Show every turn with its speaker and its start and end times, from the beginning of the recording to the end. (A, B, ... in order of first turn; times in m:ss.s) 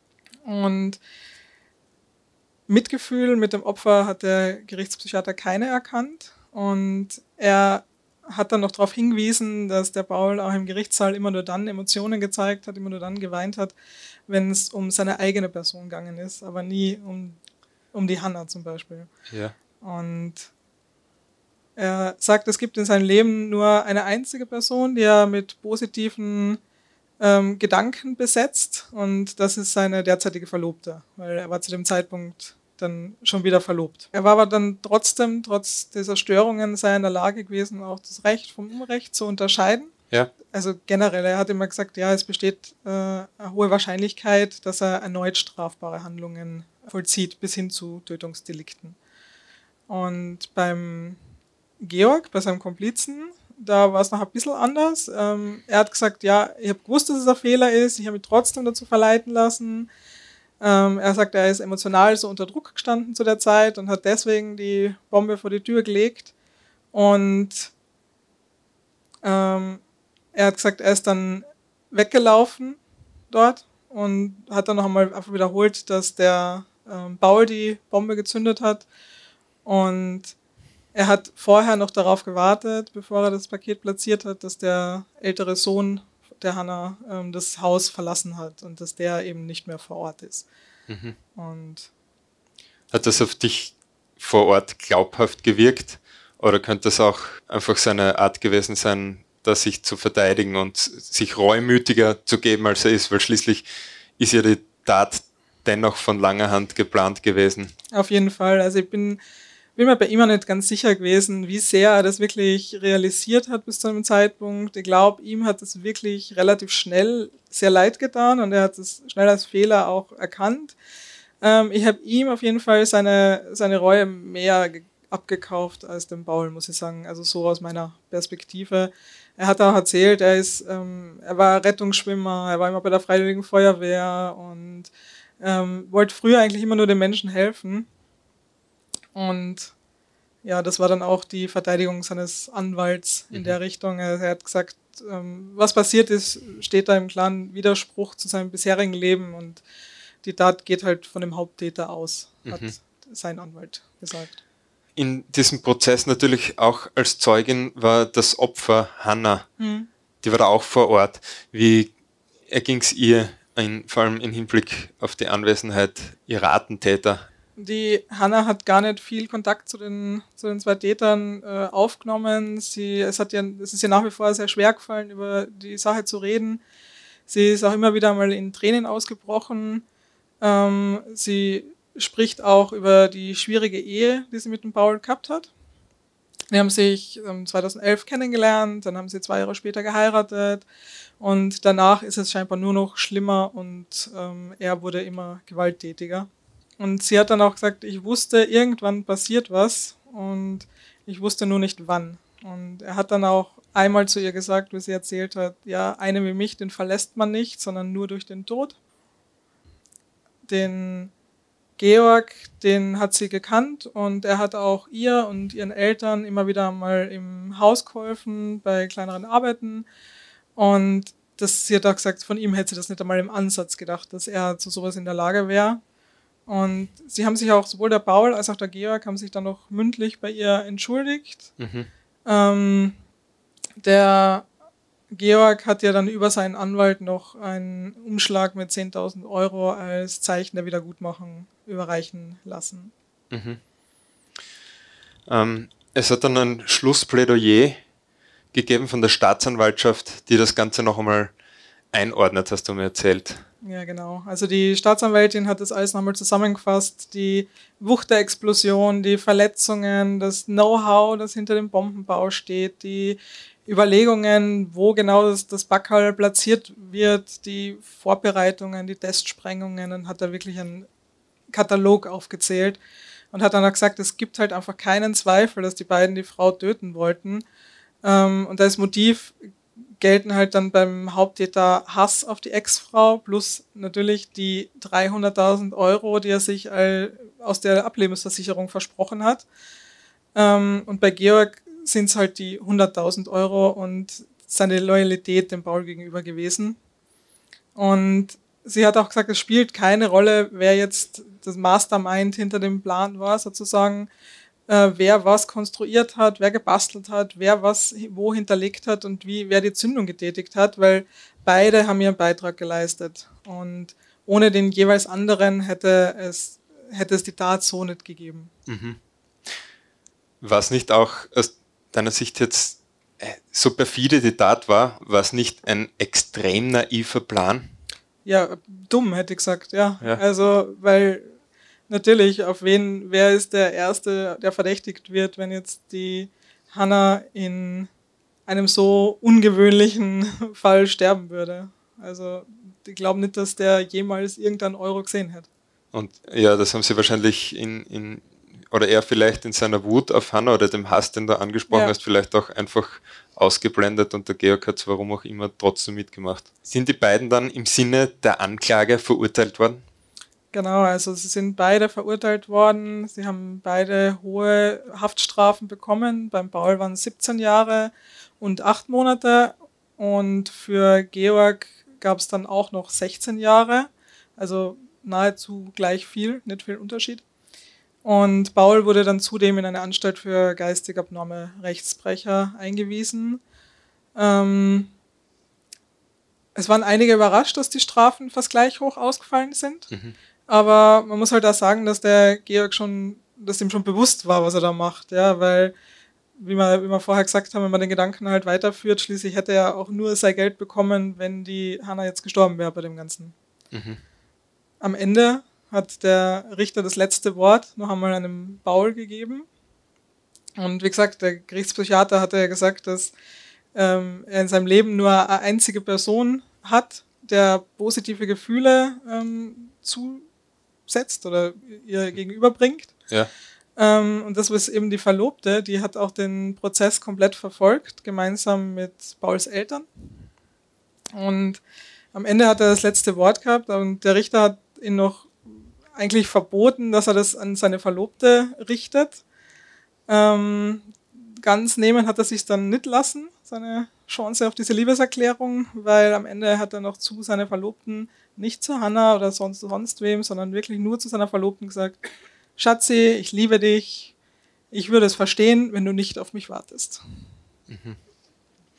0:00.4-0:01.0 A
0:02.7-0:13.8 A
0:14.3-0:17.4 A
0:17.9-0:19.1 A
0:19.3-0:19.6 B
0:19.8-0:20.5 A
0:21.8-0:26.6 A
0:27.2-0:39.9 A
0:40.5-0:49.0 A
0:49.9-0:51.2 A
0:51.8-0:59.9 A
1:00.6-1:06.3 A
1:06.9-1:07.7 A
1:09.2-1:09.8 A
1:10.3-1:12.8 A
1:13.3-1:18.9 A
1:19.6-1:20.4 A
1:20.9-1:30.5 A
1:30.9-1:31.2 B
1:31.4-1:31.9 A
1:32.9-1:43.7 B
1:44.2-1:47.7 B
1:47.9-1:49.2 A
1:49.8-2:00.8 A
2:01.4-2:17.9 A
2:19.2-2:19.7 A
2:20.4-2:29.6 A
2:30.2-2:34.4 A
2:32.5-2:32.8 B
2:35.0-2:39.5 B
2:39.6-2:39.9 A
2:40.2-2:41.9 B
2:42.5-2:47.3 B
2:47.6-2:56.6 A
2:57.3-2:59.8 A
3:00.4-3:05.5 A
3:06.5-3:10.7 A
3:11.2-3:28.8 A
3:30.5-3:31.1 A
3:31.8-3:39.9 A
3:40.6-3:45.8 A
3:46.5-3:51.5 A
3:51.6-3:51.9 B
3:52.3-3:53.0 A
3:53.8-3:54.5 A
3:55.1-4:02.9 A
4:03.3-4:03.6 B
4:05.3-4:07.8 B
4:08.5-4:11.3 B
4:11.9-4:13.4 B
4:13.6-4:30.9 A
4:31.5-4:32.8 A
4:33.3-4:37.4 A
4:38.0-4:39.4 A
4:40.0-4:49.5 A
4:50.4-4:56.8 A
4:57.8-5:04.1 A
5:04.7-5:18.5 A
5:18.7-5:19.0 B
5:20.4-5:27.7 B
5:28.2-5:31.3 A
5:31.9-5:37.9 A
5:38.5-5:45.5 A
5:45.9-5:59.8 B
6:00.5-6:17.2 A
6:18.0-6:23.4 A
6:24.2-6:24.9 A
6:26.6-6:29.9 A
6:30.5-6:35.7 A
6:36.4-6:43.4 A
6:43.7-6:44.0 B
6:44.8-6:49.5 A
6:50.6-6:53.1 A
6:53.8-7:00.3 A
7:00.9-7:03.0 A
7:03.8-7:09.9 A
7:11.1-7:11.6 A
7:12.1-7:19.2 A
7:20.1-7:32.0 A
7:32.6-7:34.1 A
7:34.7-7:37.0 A
7:37.7-7:38.0 B